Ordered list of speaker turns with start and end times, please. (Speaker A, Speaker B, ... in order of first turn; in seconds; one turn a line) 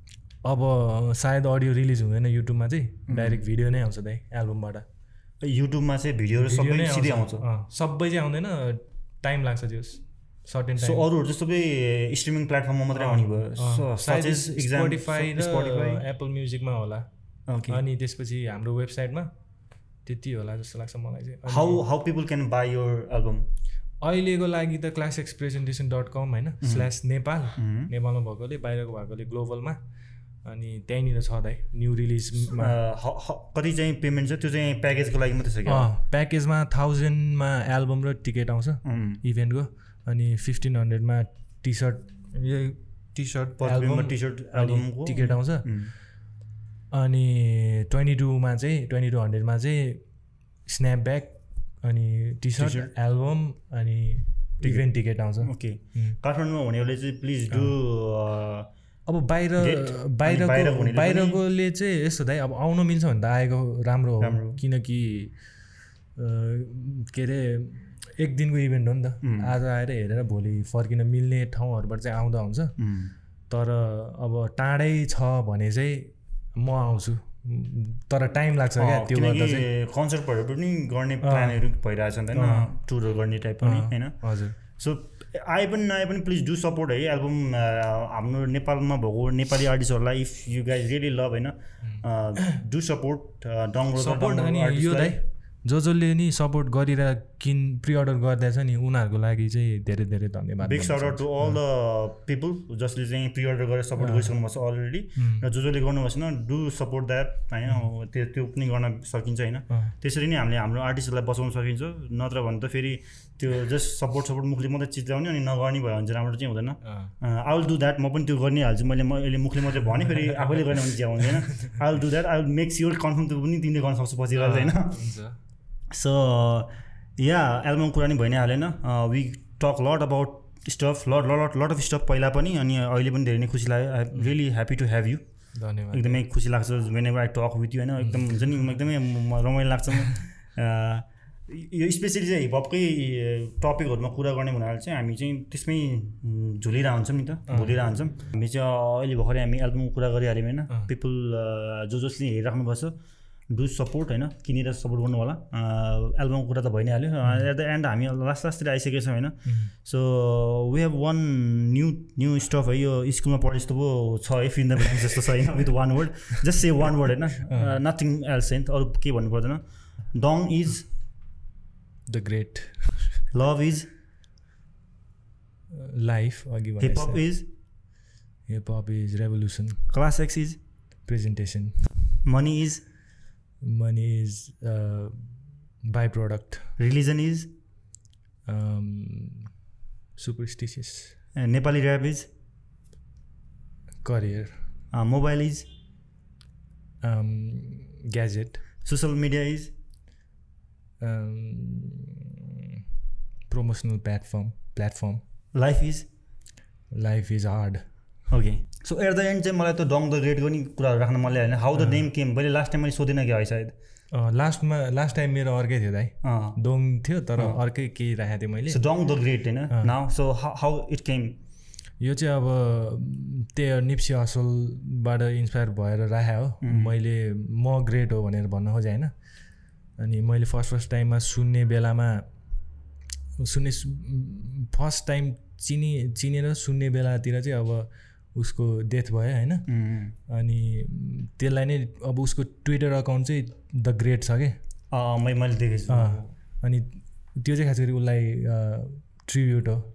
Speaker A: 0.4-4.9
Speaker B: 3.1-3.4
Speaker B: 5.4-7.5
Speaker A: 6.4-11.1
Speaker B: 10.8-16.0
Speaker A: 12.9-17.1
Speaker B: 17.5-17.8
Speaker A: 17.7-19.3
Speaker A: 20.1-21.8
Speaker B: 21.5-23.5
Speaker A: 24.0-29.8
Speaker B: 26.6-26.9
Speaker B: 27.6-27.9
Speaker A: 30.4-32.8
Speaker B: 32.4-35.9
Speaker A: 35.6-45.7
Speaker B: 38.9-39.2
Speaker B: 43.6-45.9
Speaker A: 46.9-50.0
Speaker A: 50.7-56.2
Speaker B: 52.6-52.9
Speaker B: 55.4-58.7
Speaker A: 59.1-65.3
Speaker B: 59.6-61.4
Speaker B: 64.2-64.6
Speaker A: 66.2-72.8
Speaker B: 69.2-69.5
Speaker B: 72.8-73.1
Speaker A: 73.5-79.7
Speaker B: 78.8-95.2
Speaker A: 81.2-81.7
Speaker A: 82.3-82.7
Speaker A: 83.6-84.6
Speaker A: 91.8-92.6
Speaker A: 94.0-101.6
Speaker B: 100.6-125.0
Speaker A: 104.0-104.4
Speaker A: 105.2-105.5
Speaker A: 116.8-117.1
Speaker A: 120.2-120.5
Speaker A: 124.3-125.4
Speaker B: 125.9-135.2
Speaker A: 135.6-136.2
Speaker B: 135.9-152.9
Speaker A: 138.0-138.3
Speaker A: 147.5-147.8
Speaker B: 153.5-170.9
Speaker A: 159.5-159.7
Speaker A: 167.5-167.8
Speaker A: 172.1-173.2
Speaker B: 173.3-173.9
Speaker A: 175.7-177.2
Speaker B: 176.8-177.5
Speaker A: 178.5-179.8
Speaker B: 179.9-180.6
Speaker A: 181.1-181.8
Speaker B: 182.2-182.8
Speaker A: 183.6-185.2
Speaker A: 185.8-186.7
Speaker B: 186.8-187.5
Speaker A: 188.5-189.5
Speaker A: 190.2-191.2
Speaker B: 191.4-192.3
Speaker A: 194.0-194.6
Speaker B: 194.9-195.7
Speaker A: 197.0-198.6
Speaker B: 198.8-199.7
Speaker A: 201.0-202.8
Speaker A: 203.5-205.2
Speaker B: 205.5-206.1
Speaker A: 206.9-207.8
Speaker B: 208.3-213.8
Speaker A: 211.8-212.1
Speaker A: 214.1-218.8
Speaker B: 216.2-216.6
Speaker B: 218.7-221.4
Speaker A: 222.0-229.1
Speaker B: 226.6-226.9
Speaker A: 230.0-232.3
Speaker A: 233.4-239.7
Speaker B: 239.7-240.1
Speaker A: 240.3-244.6
Speaker B: 244.9-246.3
Speaker A: 245.9-249.9